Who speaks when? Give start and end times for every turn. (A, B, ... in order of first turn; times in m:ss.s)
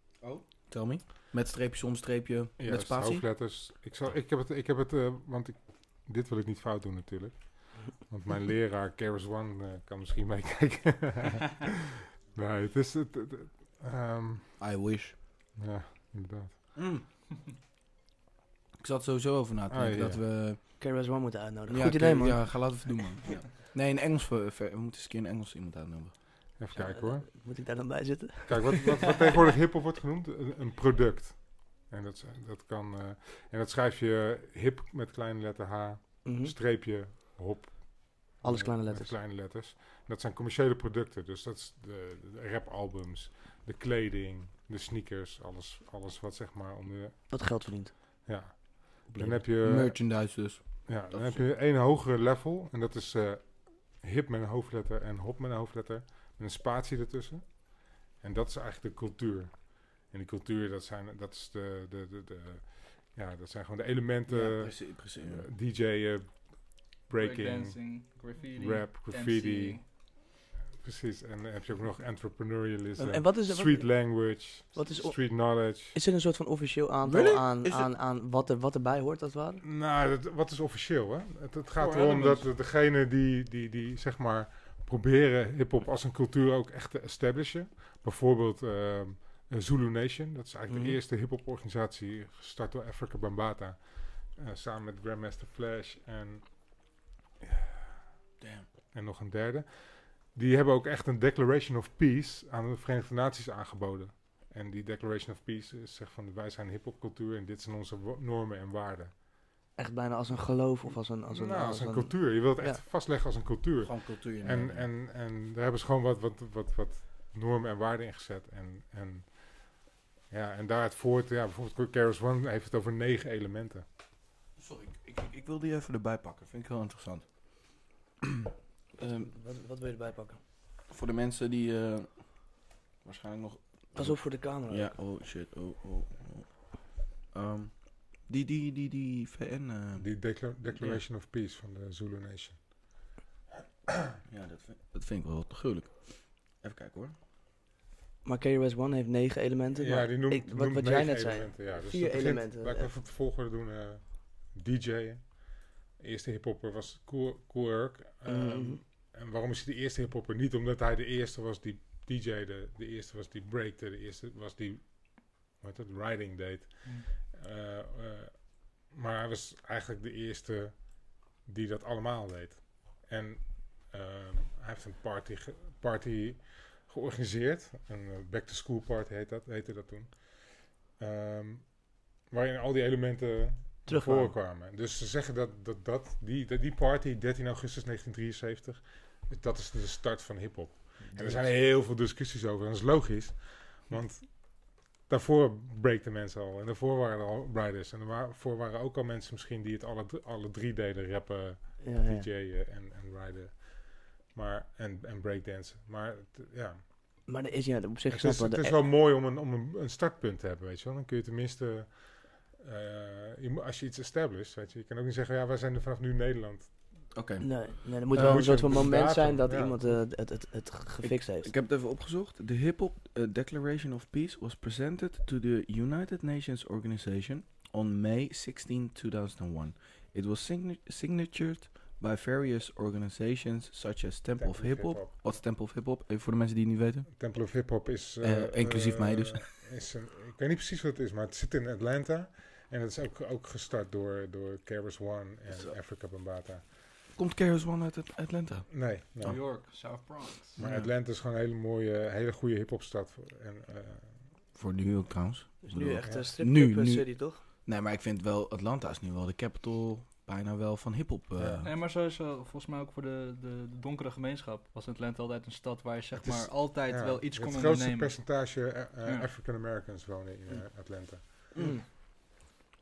0:00.2-0:03.2 A
0:02.6-0:11.7 B
0:12.3-0:14.5 B
0:14.6-0:15.2 A
0:15.6-0:16.7 B
0:16.8-0:17.0 A
0:18.8-0:20.6 A
0:19.7-0:20.4 B
0:20.8-0:22.9 C
0:21.7-0:26.2 A
0:26.6-0:27.4 B
0:26.7-0:29.4 C
0:28.5-1:16.0 B
0:36.2-0:36.5 C
0:38.4-0:39.1 C
0:47.3-0:48.2 C
0:49.1-0:51.4 A
1:04.3-1:05.5 A
1:07.2-1:09.8 D
1:13.0-1:19.6 C
1:17.0-1:17.9 A
1:19.6-1:38.2 B
1:30.7-1:31.0 C
1:38.4-1:38.7 A
1:38.9-1:49.1 B
1:49.8-1:52.8 C
1:51.3-2:03.8 B
1:53.8-1:54.9 A
2:04.6-2:08.2 A
2:09.0-2:09.3 A
2:09.0-2:10.4 C
2:10.8-2:20.1 A
2:13.9-2:15.0 C
2:20.0-2:23.0 B
2:24.2-2:27.1 A
2:28.2-2:32.9 C
2:29.8-3:27.3 B
2:38.2-2:38.8 C
3:03.8-3:04.4 C
3:11.0-3:11.6 A
3:21.8-3:22.2 C
3:27.3-3:28.8 C
3:28.1-3:37.1 B
3:37.1-3:38.9 A
3:37.4-3:41.5 C
3:38.2-3:39.9 B
3:41.0-3:57.1 A
3:54.4-3:55.4 B
3:57.1-4:06.6 B
3:58.2-3:59.4 A
4:05.5-4:05.7 A
4:07.2-4:10.9 A
4:08.7-4:09.5 B
4:09.2-4:10.6 D
4:10.6-4:14.4 B
4:14.5-4:21.7 A
4:15.6-4:17.4 C
4:21.4-4:21.7 B
4:21.6-4:29.3 D
4:26.1-4:31.8 B
4:31.5-4:31.8 C